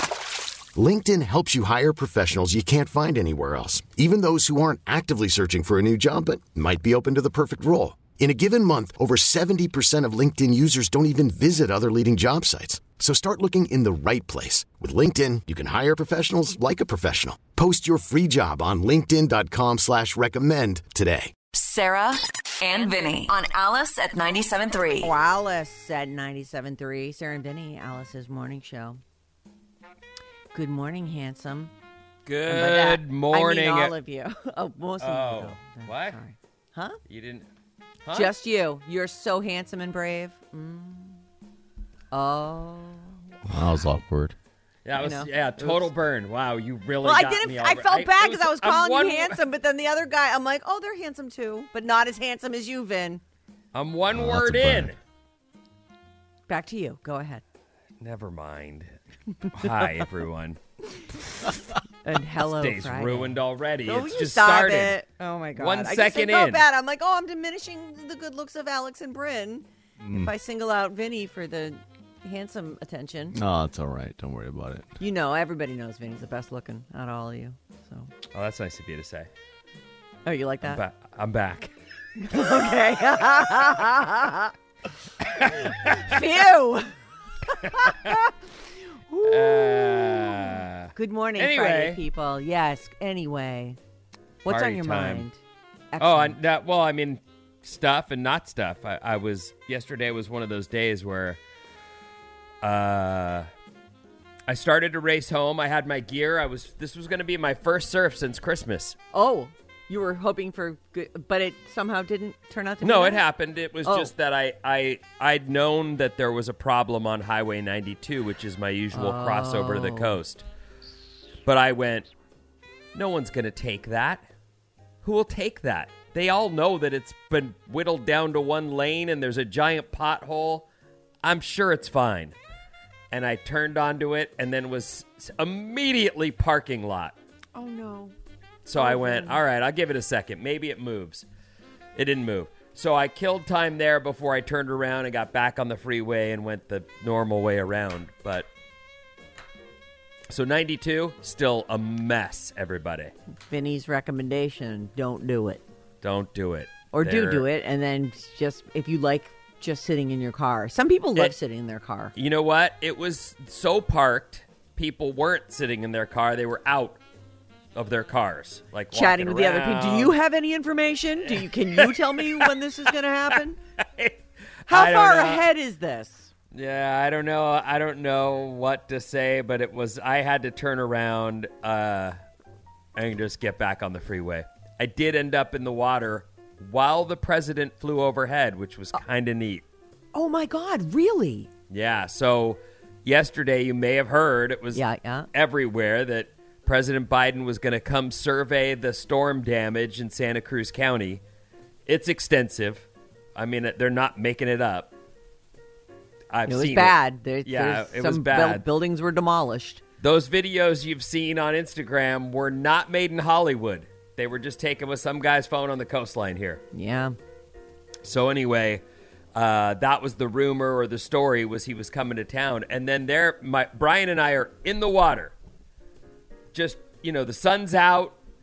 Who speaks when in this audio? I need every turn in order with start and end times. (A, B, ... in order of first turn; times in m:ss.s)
0:00.7-0:21.3 A
0:21.5-0:25.1 B
0:25.0-0:29.0 C
0:30.5-0:31.7 C
0:32.2-0:33.9 D
0:32.5-0:37.0 C
0:35.0-0:36.2 D
0:37.1-0:37.4 D
0:38.0-0:38.3 D
0:38.1-0:41.2 C
0:42.1-0:43.1 C
0:43.6-0:44.3 E
0:44.8-0:49.4 D
0:45.0-0:45.9 C
0:47.0-0:53.2 C
0:53.7-0:55.0 D
0:56.5-0:57.4 C
0:58.0-0:58.9 D
0:59.5-1:00.6 D
1:02.0-1:13.4 C
1:02.4-1:05.0 D
1:05.6-1:06.6 D
1:13.5-1:14.8 E
1:15.0-1:18.1 C
1:18.3-1:19.3 D
1:20.2-1:20.8 C
1:20.6-1:21.7 D
1:22.2-1:24.5 C
1:25.4-1:26.1 D
1:25.8-1:26.9 C
1:27.6-1:28.3 C
1:27.8-1:28.1 D
1:29.1-1:33.8 C
1:29.2-1:32.0 D
1:34.4-1:35.4 C
1:34.5-1:35.2 D
1:35.9-1:36.4 C
1:36.0-1:41.4 D
1:42.6-1:43.5 D
1:44.5-1:49.0 D
1:49.1-1:53.2 C
1:52.8-2:00.4 D
1:53.8-1:54.1 C
1:58.9-2:00.2 C
2:01.4-2:02.1 D
2:02.9-2:04.2 D
2:05.0-2:10.7 D
2:11.2-2:12.4 D
2:13.1-2:17.1 D
2:17.5-2:18.1 C
2:18.6-2:21.2 D
2:18.7-2:19.4 C
2:21.9-2:28.5 D
2:30.3-2:33.1 D
2:33.5-2:35.6 C
2:36.0-2:37.4 D
2:36.9-2:42.1 C
2:42.1-2:47.0 D
2:47.7-2:50.1 D
2:48.9-2:53.6 C
2:51.3-2:52.5 D
2:53.8-2:55.4 D
2:54.7-2:56.3 C
2:56.5-3:02.2 D
3:03.0-3:09.6 D
3:10.1-3:11.5 C
3:11.7-3:14.8 D
3:14.7-3:15.3 C
3:15.3-3:21.2 D
3:21.8-3:24.9 D
3:26.3-3:28.6 D
3:26.4-3:29.8 C
3:30.0-3:36.6 D
3:36.7-3:37.1 C
3:38.0-3:38.8 D
3:39.3-3:45.3 D
3:46.5-3:48.2 D